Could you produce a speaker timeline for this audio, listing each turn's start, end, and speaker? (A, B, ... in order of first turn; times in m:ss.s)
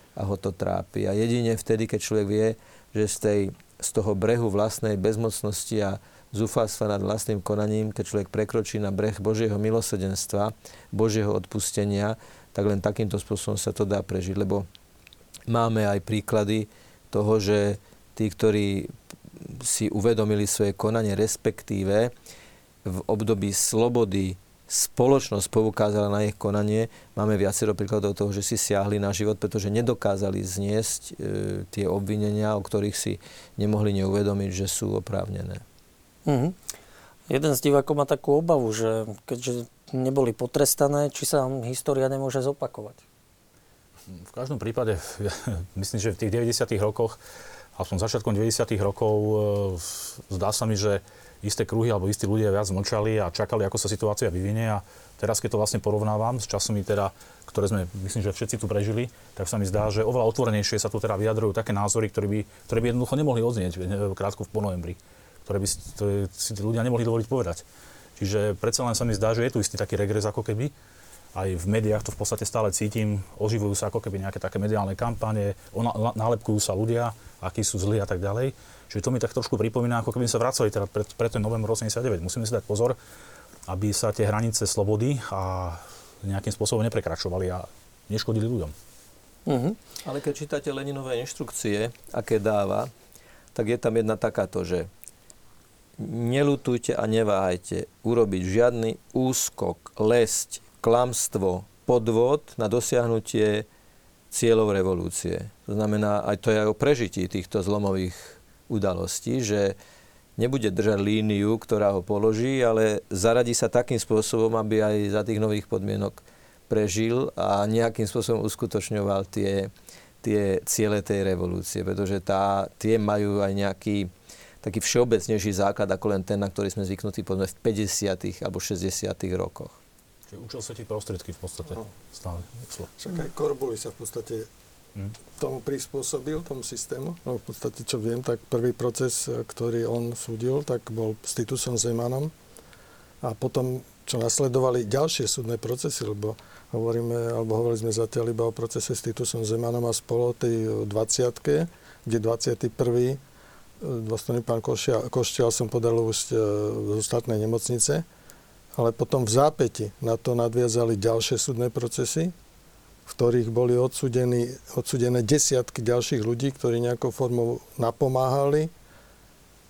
0:00.2-0:14.7 A
0:15.5-0:22.1 A
0:22.9-0:35.6 A
0:36.3-0:36.6 B
0:37.3-0:43.0 B
0:44.1-0:47.2 C
0:47.8-1:07.6 C
1:08.2-1:10.7 C
1:11.3-1:23.0 C
1:23.7-1:28.7 C
1:29.5-1:29.8 B
1:30.0-1:32.9 A
1:33.6-1:34.9 A
1:36.0-1:43.7 A
1:44.3-1:49.8 A
1:50.4-2:04.1 A
2:04.6-2:09.8 A
2:10.3-2:12.9 C
2:13.0-2:14.5 D
2:15.4-2:22.3 D
2:23.2-2:33.2 D
2:33.8-2:38.1 D
2:38.8-2:42.3 D
2:43.1-2:48.7 D